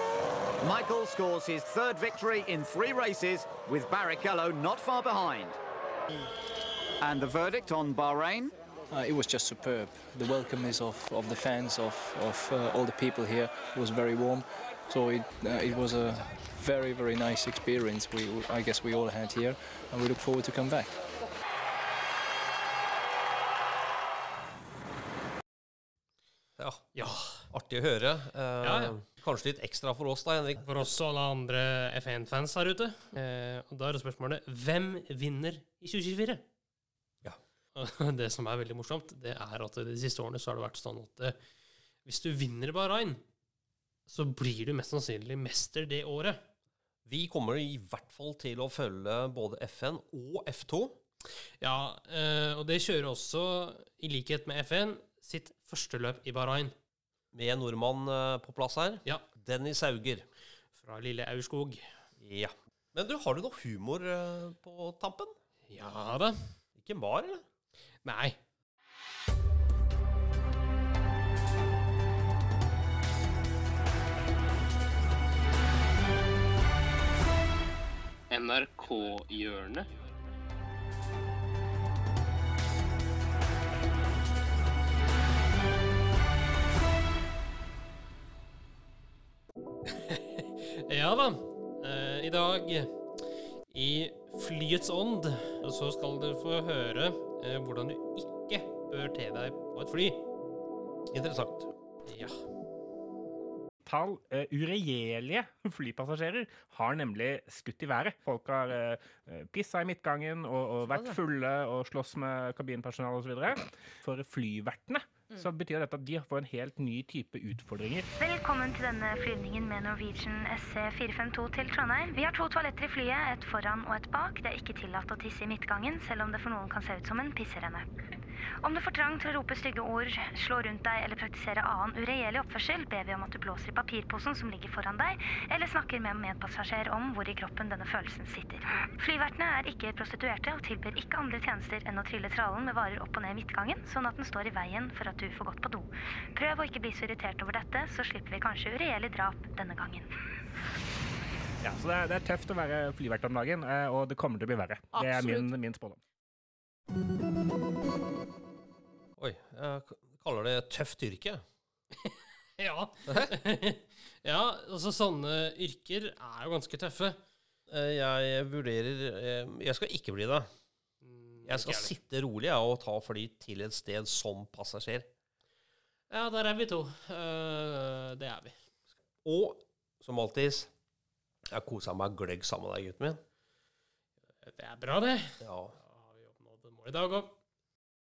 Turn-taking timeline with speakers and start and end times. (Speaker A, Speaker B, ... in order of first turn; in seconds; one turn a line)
Speaker A: 0.6-5.6
Speaker A: 7.0-8.5
Speaker B: 8.9-20.9
Speaker C: 26.6-26.9
Speaker D: 26.9-27.5
Speaker C: 27.5-30.6
Speaker D: 28.6-28.9
Speaker D: 30.6-36.4
Speaker D: 37.8-41.4
Speaker D: 42.0-43.2
Speaker D: 44.1-46.4
Speaker C: 47.1-51.0
Speaker D: 51.6-56.7
Speaker C: 57.3-60.3
Speaker D: 60.8-61.9
Speaker C: 62.2-65.3
Speaker D: 65.7-66.5
Speaker C: 66.8-67.4
Speaker D: 68.0-68.4
Speaker D: 78.3-79.9
Speaker D: 89.9-92.9
Speaker D: 93.7-100.2
Speaker C: 101.1-101.7
Speaker D: 102.1-102.3
Speaker E: 103.8-118.1
Speaker C: 110.9-111.2
Speaker F: 118.2-127.9
Speaker F: 128.6-150.1
Speaker E: 151.6-156.0
Speaker C: 159.2-161.4
Speaker D: 162.0-167.2
Speaker C: 167.7-170.5
Speaker D: 171.0-171.9
Speaker C: 171.5-175.1
Speaker D: 176.1-178.6
Speaker C: 179.2-180.7
Speaker C: 181.5-183.2
Speaker D: 184.4-187.3
Speaker C: 185.4-185.8